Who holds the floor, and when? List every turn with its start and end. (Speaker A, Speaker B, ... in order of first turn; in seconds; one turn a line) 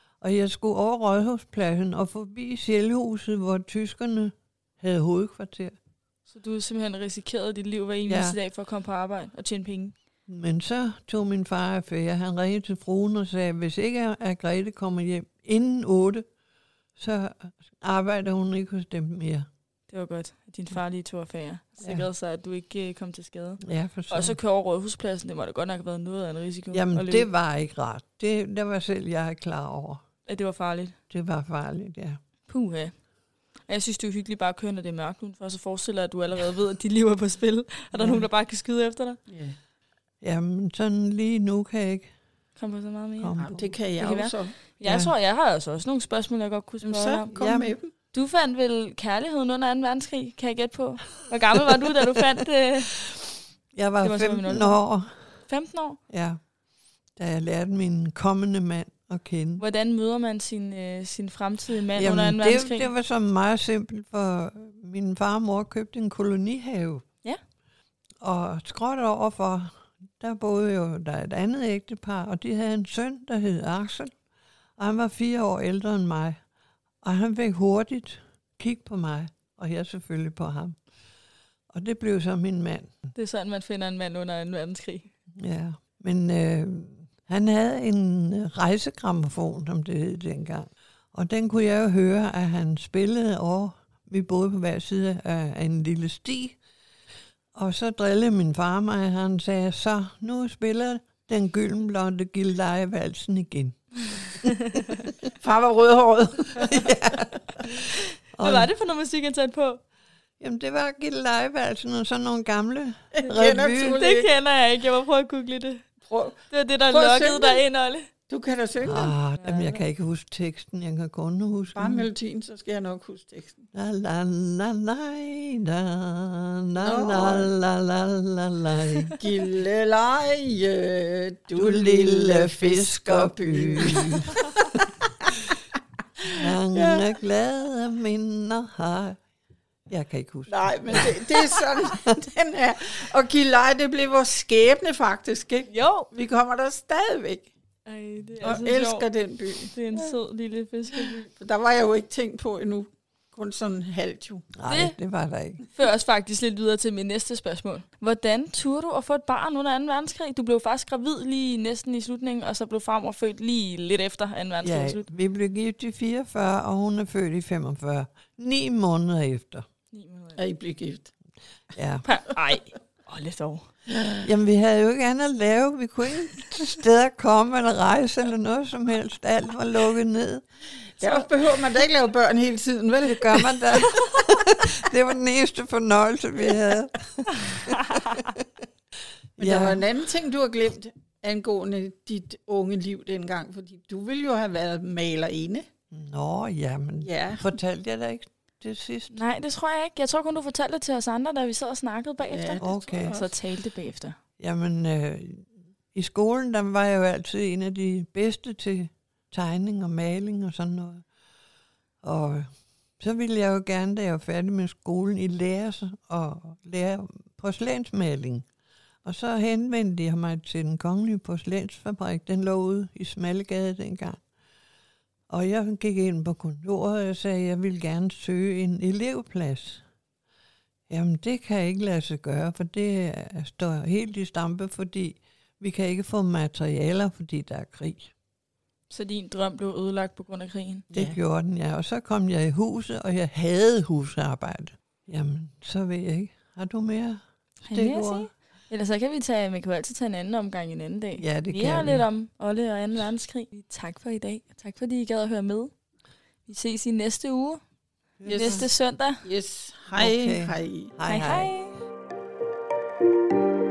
Speaker A: 0.2-5.8
Speaker B: 6.3-9.9
Speaker A: 8.1-8.4
Speaker A: 10.3-16.2
Speaker A: 17.0-19.4
Speaker B: 19.9-27.3
Speaker A: 21.8-22.1
Speaker A: 23.6-24.4
Speaker A: 26.7-30.0
Speaker B: 30.2-31.0
Speaker A: 31.1-32.2
Speaker B: 32.5-32.9
Speaker B: 33.7-39.2
Speaker C: 38.0-38.2
Speaker C: 39.3-39.6
Speaker A: 40.2-42.1
Speaker B: 42.6-43.4
Speaker A: 43.2-43.8
Speaker C: 43.4-44.6
Speaker B: 44.0-47.3
Speaker A: 44.8-45.1
Speaker C: 46.8-47.9
Speaker A: 47.3-47.7
Speaker B: 48.1-53.0
Speaker A: 53.7-55.2
Speaker B: 54.0-54.8
Speaker B: 55.5-56.0
Speaker A: 56.1-56.4
Speaker A: 57.2-59.6
Speaker B: 59.6-62.9
Speaker A: 62.0-67.0
Speaker A: 68.2-74.1
Speaker A: 74.8-76.4
Speaker A: 77.0-80.8
Speaker A: 81.7-83.0
Speaker B: 83.2-85.1
Speaker A: 85.4-96.6
Speaker A: 97.5-103.8
Speaker C: 105.4-106.8
Speaker A: 106.6-107.3
Speaker B: 107.7-109.8
Speaker A: 108.3-108.7
Speaker A: 110.4-114.0
Speaker C: 113.2-114.3
Speaker B: 113.9-115.9
Speaker C: 116.1-117.6
Speaker B: 116.5-118.1
Speaker C: 118.3-119.2
Speaker A: 118.8-122.1
Speaker B: 119.4-119.8
Speaker C: 121.8-123.6
Speaker A: 123.7-129.2
Speaker C: 126.8-127.5
Speaker C: 129.2-134.4
Speaker A: 131.5-134.8
Speaker A: 136.3-139.2
Speaker C: 136.7-137.1
Speaker A: 139.9-141.4
Speaker C: 140.5-147.5
Speaker B: 145.7-146.1
Speaker B: 147.9-149.1
Speaker C: 148.4-150.2
Speaker B: 149.7-151.2
Speaker C: 151.0-154.5
Speaker A: 154.6-155.6
Speaker B: 154.7-155.0
Speaker B: 155.8-165.1
Speaker A: 164.6-169.6
Speaker B: 169.9-170.4
Speaker C: 170.4-171.1
Speaker A: 171.8-172.1
Speaker B: 172.0-173.7
Speaker A: 174.2-180.4
Speaker C: 181.0-184.1
Speaker A: 183.0-188.5
Speaker B: 187.5-188.2
Speaker A: 189.4-189.8
Speaker C: 189.4-195.7
Speaker A: 195.9-199.2
Speaker C: 197.0-197.4
Speaker B: 199.1-204.2
Speaker C: 202.3-203.3
Speaker A: 202.6-203.3
Speaker A: 204.4-211.1
Speaker A: 212.0-212.5
Speaker A: 213.0-218.4
Speaker A: 219.0-224.2
Speaker A: 225.3-229.8
Speaker A: 230.9-238.1
Speaker B: 238.9-240.9
Speaker C: 240.9-241.2
Speaker A: 240.9-248.3
Speaker B: 247.7-255.7
Speaker A: 251.2-252.1
Speaker B: 256.5-257.6
Speaker A: 258.2-258.7
Speaker C: 258.3-260.9
Speaker B: 258.3-259.2
Speaker A: 260.0-261.5
Speaker B: 261.1-261.8